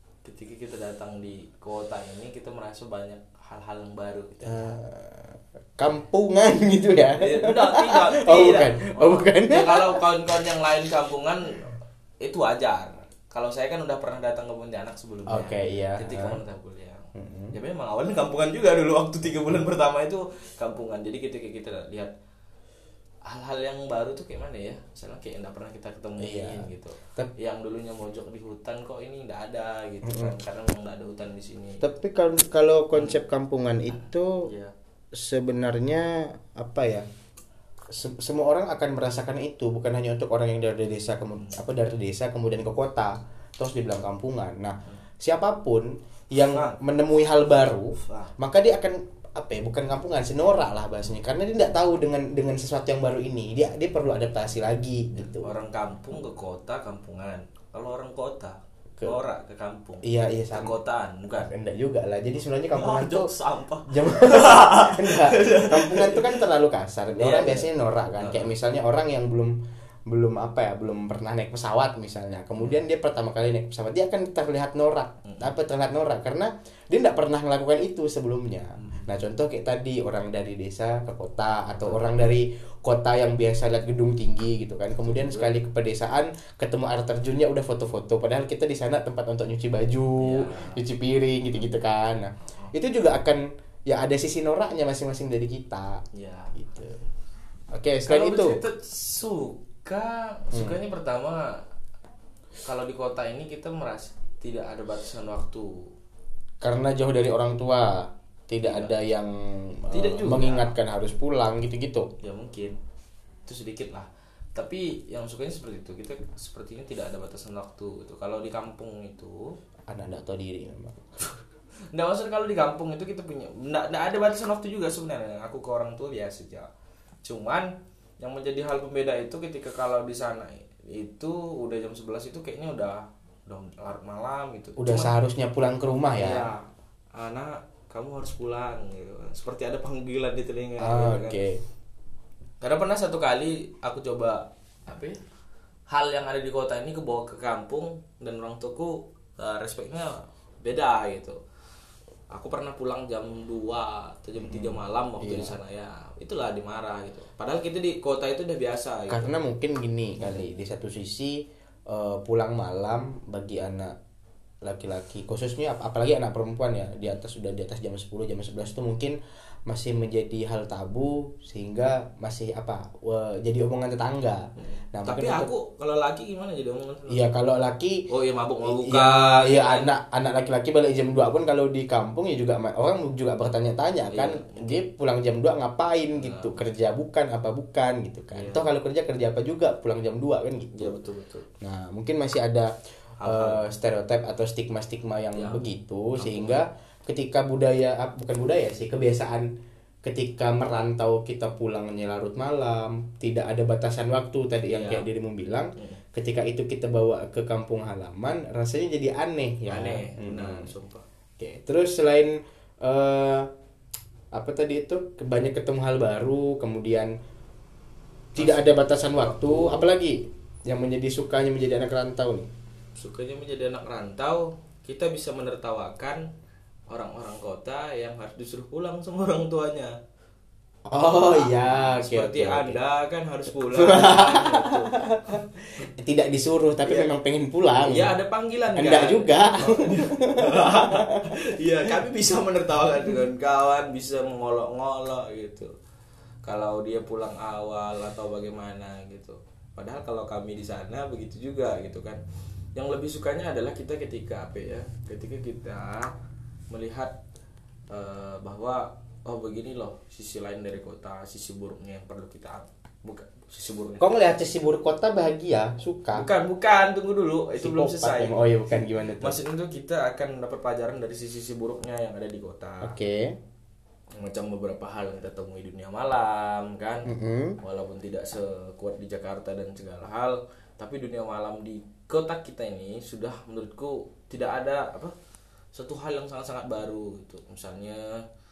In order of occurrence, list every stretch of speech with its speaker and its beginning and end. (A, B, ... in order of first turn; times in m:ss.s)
0:00.2-0:04.8 A
0:04.4-0:10.5 B
0:07.2-0:22.1 A
0:15.3-0:16.4 B
0:17.1-0:17.5 B
0:23.2-0:31.8 A
0:26.2-0:27.3 B
0:30.0-0:30.4 B
0:31.8-0:34.4 B
0:32.9-0:33.2 A
0:34.0-0:34.7 A
0:35.1-0:37.0 B
0:37.9-0:55.5 B
0:46.5-0:46.8 A
0:48.0-0:48.3 A
0:55.1-1:01.5 A
1:00.0-1:00.7 B
1:01.4-1:03.3 B
1:02.7-1:06.4 A
1:03.9-1:09.5 B
1:07.2-1:08.5 A
1:10.1-1:36.0 B
1:15.2-1:15.5 A
1:18.8-1:19.1 A
1:25.1-1:25.5 A
1:30.2-1:30.8 A
1:36.1-1:36.5 A
1:36.5-1:37.0 B
1:37.7-1:38.6 B
1:38.1-1:41.6 A
1:42.6-1:45.9 A
1:46.6-1:52.1 B
1:48.6-1:48.9 A
1:49.9-1:50.7 A
1:52.2-1:52.8 A
1:53.4-1:59.6 A
1:59.9-2:01.0 B
2:01.9-2:06.7 A
2:07.2-2:15.1 A
2:14.8-2:16.5 B
2:16.2-2:21.4 A
2:20.8-2:21.6 B
2:22.6-2:25.2 A
2:25.9-2:31.4 A
2:32.3-2:39.3 A
2:34.4-2:35.6 B
2:39.1-2:43.9 B
2:40.2-2:40.4 A
2:44.6-2:49.2 B
2:49.7-2:55.5 B
2:54.6-2:57.2 A
2:57.1-2:58.0 B
2:58.1-2:59.9 A
2:58.6-3:11.0 B
3:04.1-3:04.8 A
3:06.2-3:06.6 A
3:08.3-3:08.6 A
3:10.7-3:11.4 A
3:11.6-3:12.7 B
3:13.2-3:13.6 A
3:13.2-3:19.5 B
3:15.3-3:15.6 A
3:16.2-3:16.6 A
3:20.0-3:30.7 B
3:24.7-3:25.0 A
3:25.8-3:26.0 A
3:29.7-3:31.0 A
3:31.4-3:33.5 B
3:34.3-3:37.1 B
3:38.3-3:42.5 B
3:38.4-3:39.8 A
3:43.0-3:46.2 A
3:46.9-3:49.9 A
3:50.9-3:52.8 B
3:51.1-3:55.8 A
3:53.6-3:58.1 B
3:56.8-3:57.1 A
3:57.8-4:05.7 A
3:58.7-4:01.6 B
4:06.4-4:12.2 A
4:12.7-4:16.1 A
4:16.7-4:17.1 A
4:17.9-4:24.1 A
4:24.0-4:26.3 B
4:26.1-4:33.0 A
4:27.6-4:29.4 B
4:32.8-4:33.4 B
4:34.2-4:37.1 A
4:37.1-4:37.6 B
4:37.6-4:45.1 A
4:45.7-4:48.2 A